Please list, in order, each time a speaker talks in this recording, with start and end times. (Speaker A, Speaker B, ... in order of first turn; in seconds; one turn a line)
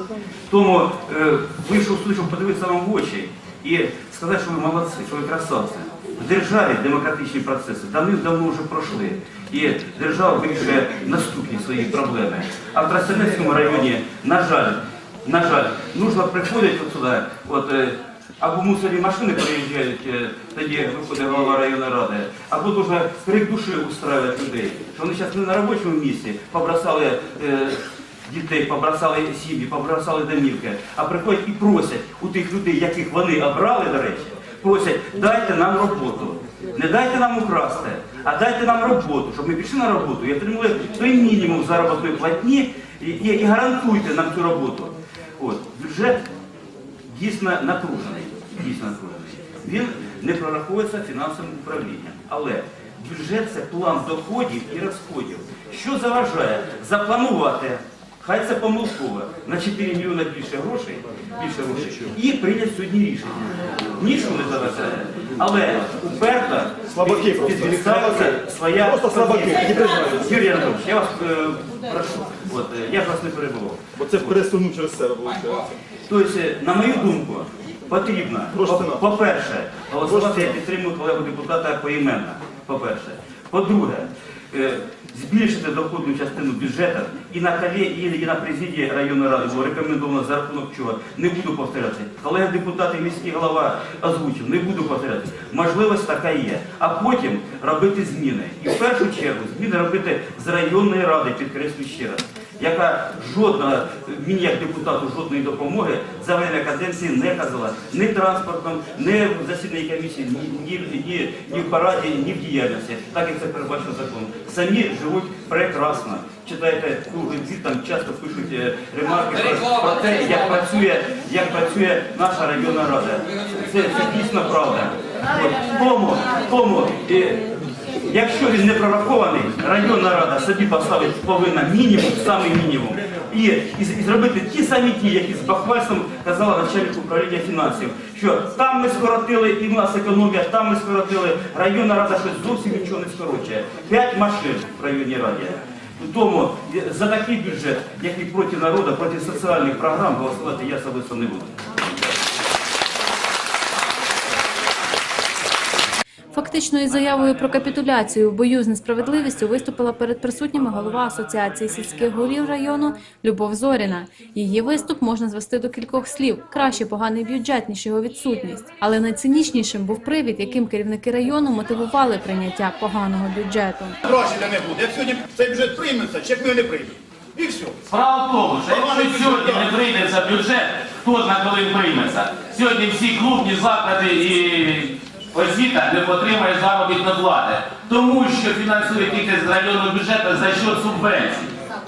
Speaker A: 0.5-46.2
Speaker A: 47.1-74.3
Speaker B: 66.9-70.4
Speaker B: 74.0-75.7
Speaker A: 76.1-127.4
Speaker B: 78.5-79.0
Speaker B: 80.0-80.6
Speaker A: 128.0-152.1
Speaker C: 156.3-174.0
Speaker D: 174.1-177.7
Speaker E: 177.9-191.5
Speaker D: 178.7-179.6